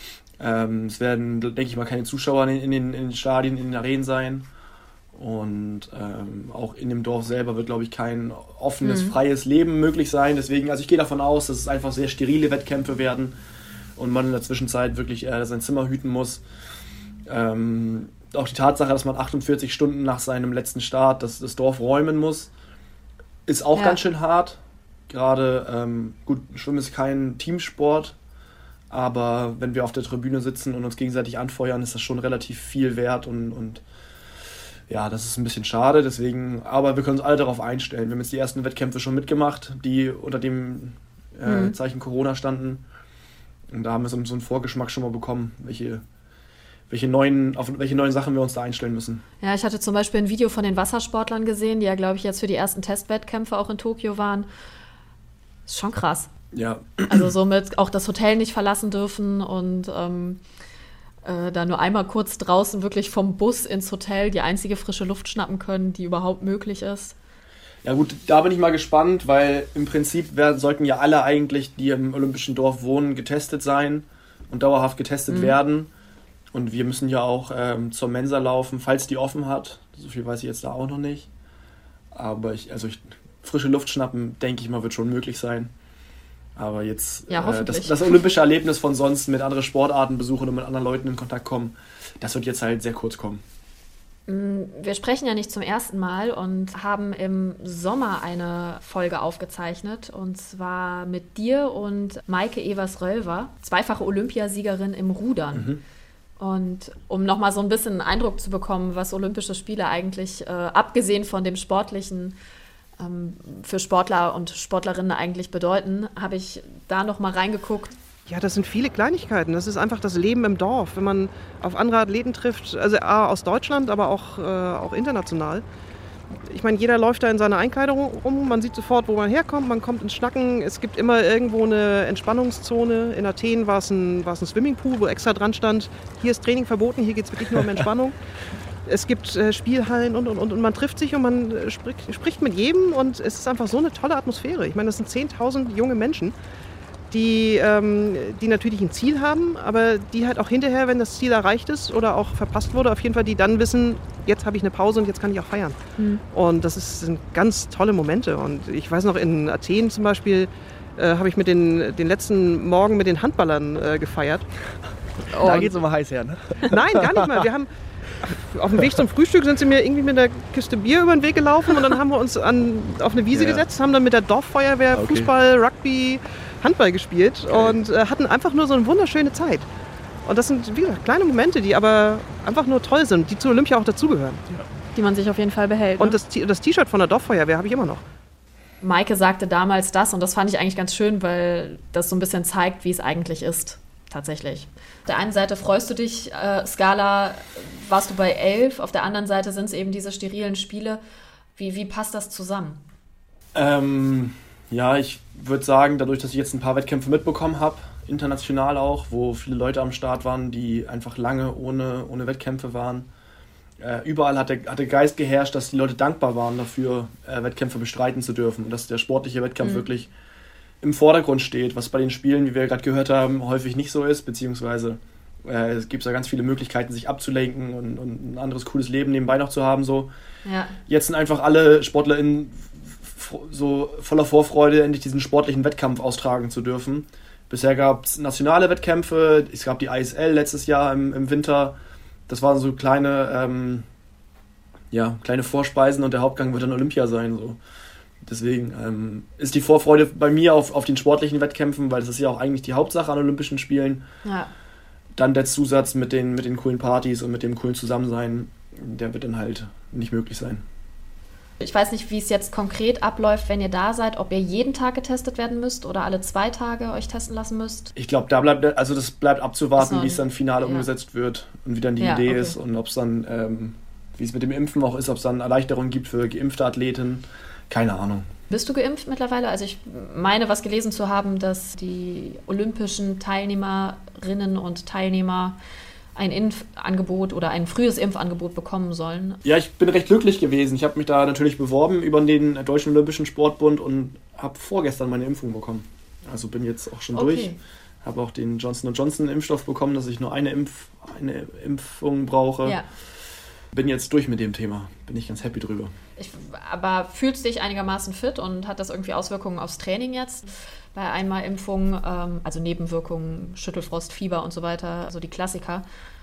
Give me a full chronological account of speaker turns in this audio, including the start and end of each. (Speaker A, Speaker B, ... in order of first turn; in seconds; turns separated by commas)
Speaker A: 0.4-4.5, Speaker A: 5.1-13.3, Speaker B: 8.8-9.1, Speaker A: 13.9-16.4, Speaker A: 17.3-22.5, Speaker A: 23.5-28.1, Speaker A: 28.9-33.8, Speaker A: 34.9-42.8, Speaker B: 41.4-41.8, Speaker A: 43.7-46.0, Speaker A: 46.9-49.2, Speaker B: 49.4-54.5, Speaker B: 55.7-56.3, Speaker A: 56.5-57.3, Speaker B: 57.1-60.4, Speaker B: 61.2-67.2, Speaker A: 67.8-75.9, Speaker B: 75.3-75.6, Speaker A: 76.5-81.3, Speaker A: 82.1-85.7, Speaker A: 86.5-93.4, Speaker B: 87.3-88.2, Speaker B: 94.3-105.7, Speaker A: 105.5-105.8, Speaker B: 106.4-112.3, Speaker B: 113.0-117.9, Speaker C: 118.3-125.6, Speaker C: 126.5-138.2, Speaker C: 138.8-146.3, Speaker C: 147.1-155.8, Speaker B: 156.0-156.2, Speaker C: 156.3-164.5, Speaker A: 165.3-167.4, Speaker B: 165.3-165.7, Speaker C: 165.4-165.7, Speaker C: 166.7-167.7, Speaker C: 168.2-179.7, Speaker A: 173.3-173.6, Speaker A: 174.9-175.3, Speaker A: 177.5-177.8, Speaker C: 180.2-184.6, Speaker B: 184.9-186.2, Speaker C: 186.0-188.0, Speaker B: 188.8-201.0, Speaker B: 201.6-202.8, Speaker A: 203.5-213.1, Speaker A: 213.8-220.1, Speaker A: 220.8-230.1, Speaker B: 230.4-230.8, Speaker A: 230.9-241.8, Speaker A: 242.3-243.8, Speaker A: 244.9-247.6, Speaker A: 248.2-254.0, Speaker B: 254.2-254.5, Speaker A: 255.1-260.6, Speaker B: 261.6-267.9, Speaker A: 267.9-278.3, Speaker B: 269.8-270.9, Speaker B: 272.0-272.6, Speaker B: 278.5-285.6, Speaker B: 286.1-289.4, Speaker A: 289.4-297.5, Speaker B: 297.1-297.6, Speaker A: 298.0-302.8, Speaker A: 303.7-305.9, Speaker B: 306.2-315.8